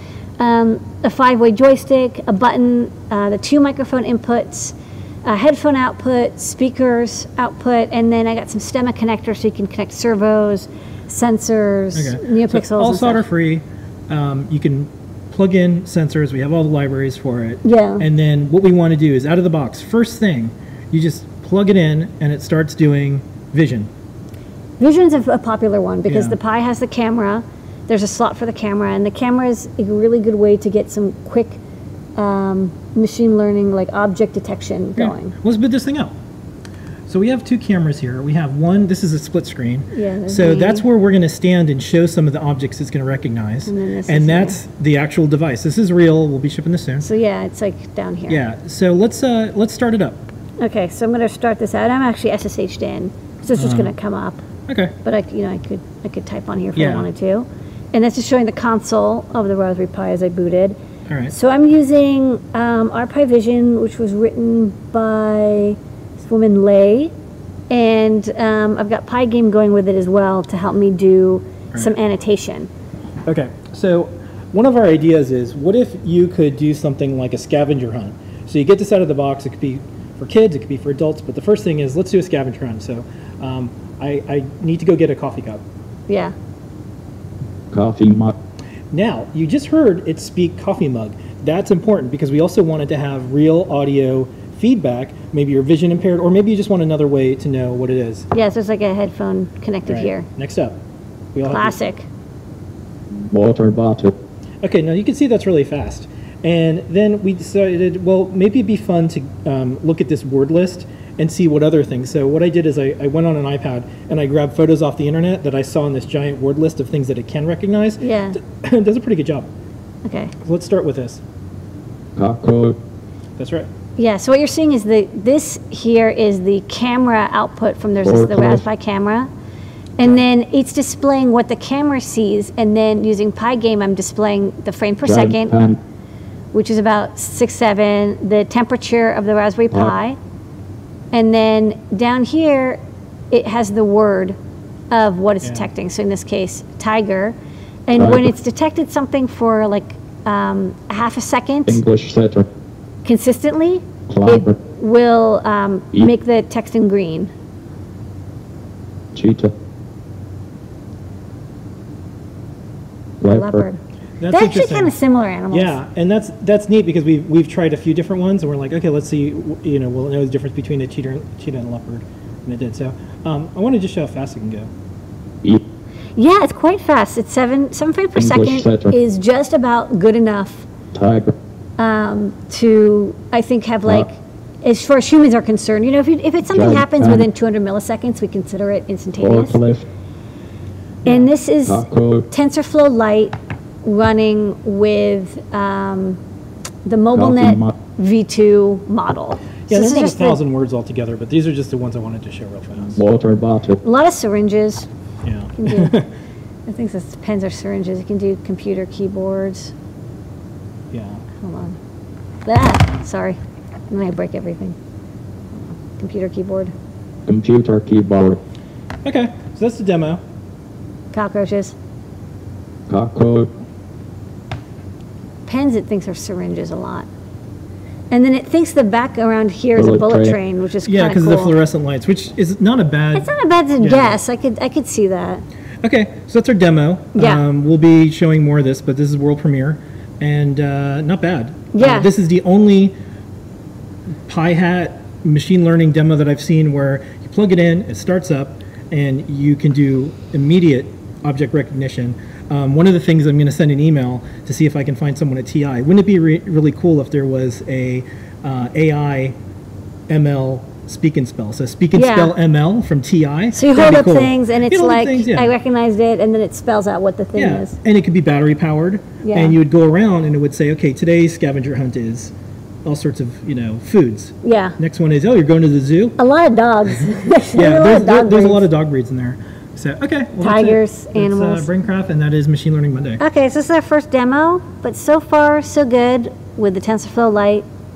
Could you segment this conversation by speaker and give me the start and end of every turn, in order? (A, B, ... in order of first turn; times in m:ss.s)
0:00.4-0:13.2 A
0:11.9-0:23.9 B
0:17.6-0:18.0 A
0:24.8-0:31.6 A
0:26.1-0:26.4 B
0:32.2-0:35.3 A
0:35.0-0:36.1 B
0:37.1-0:47.1 B
0:39.9-0:40.9 A
0:43.7-0:44.6 A
0:47.0-0:48.4 A
0:48.3-0:50.2 B
0:50.6-0:54.4 A
0:53.5-0:53.9 B
0:54.7-0:55.0 B
0:55.0-1:00.8 A
0:56.8-0:57.1 B
1:01.1-1:01.3 B
1:01.3-1:07.1 A
1:07.7-1:12.7 A
1:13.3-1:25.6 B
1:26.1-1:26.3 A
1:27.7-1:28.3 C
1:28.9-1:38.3 B
1:38.3-1:40.3 A
1:39.9-1:40.8 B
1:41.4-1:41.8 B
1:41.5-1:42.0 A
1:43.3-1:44.2 C
1:44.6-1:59.5 B
1:58.0-1:58.4 A
2:00.0-2:00.3 A
2:00.4-2:01.2 B
2:02.2-2:02.8 C
2:03.4-2:03.7 B
2:04.0-2:09.3 A
2:08.0-2:08.6 C
2:10.0-2:15.6 A
2:15.0-2:15.8 C
2:16.5-2:20.2 A
2:21.1-2:22.8 A
2:23.3-2:24.4 A
2:24.9-2:27.4 A
2:25.4-2:25.7 B
2:27.9-2:31.8 A
2:27.9-2:28.3 C
2:31.7-2:32.5 C
2:33.0-2:37.3 A
2:34.1-2:34.6 C
2:39.1-2:39.5 C
2:43.2-2:43.7 C
2:43.2-2:43.8 A
2:44.2-2:44.9 B
2:44.3-2:45.8 A
2:45.5-2:54.7 B
2:56.2-3:00.7 A
2:58.2-2:59.0 C
3:00.9-3:01.4 C
3:01.8-3:09.6 A
3:06.5-3:07.3 C
3:09.2-3:09.9 C
3:11.0-3:16.2 A
3:11.7-3:12.3 C
3:16.8-3:20.4 A
3:17.1-3:17.7 C
3:19.7-3:23.0 B
3:23.0-3:23.8 C
3:23.8-3:24.9 A
3:25.2-3:26.1 B
3:25.6-3:26.0 A
3:26.7-3:29.7 A
3:30.9-3:31.2 B
3:31.4-3:31.8 A
3:32.4-3:33.4 A
3:33.9-3:34.8 A
3:35.6-3:36.7 A
3:37.3-3:38.4 C
3:39.0-3:40.2 B
3:41.1-3:41.8 A
3:42.9-3:43.5 C
3:45.5-3:47.1 A
3:48.1-3:51.5 A
3:49.8-3:50.4 C
3:50.8-3:54.2 B
3:53.2-3:55.4 A
3:55.8-4:03.0 B
3:57.2-3:57.4 A
4:01.7-4:02.1 A
4:04.3-4:19.4 B
4:20.1-4:25.5 B
4:21.9-4:22.3 A
4:23.5-4:27.8 A
4:27.4-4:32.3 B
4:29.2-4:29.6 A
4:32.8-4:36.2 B
4:34.4-4:34.8 A
4:36.2-4:38.7 A
4:37.6-4:43.2 B
4:40.4-4:41.7 A
4:43.2-4:47.6 A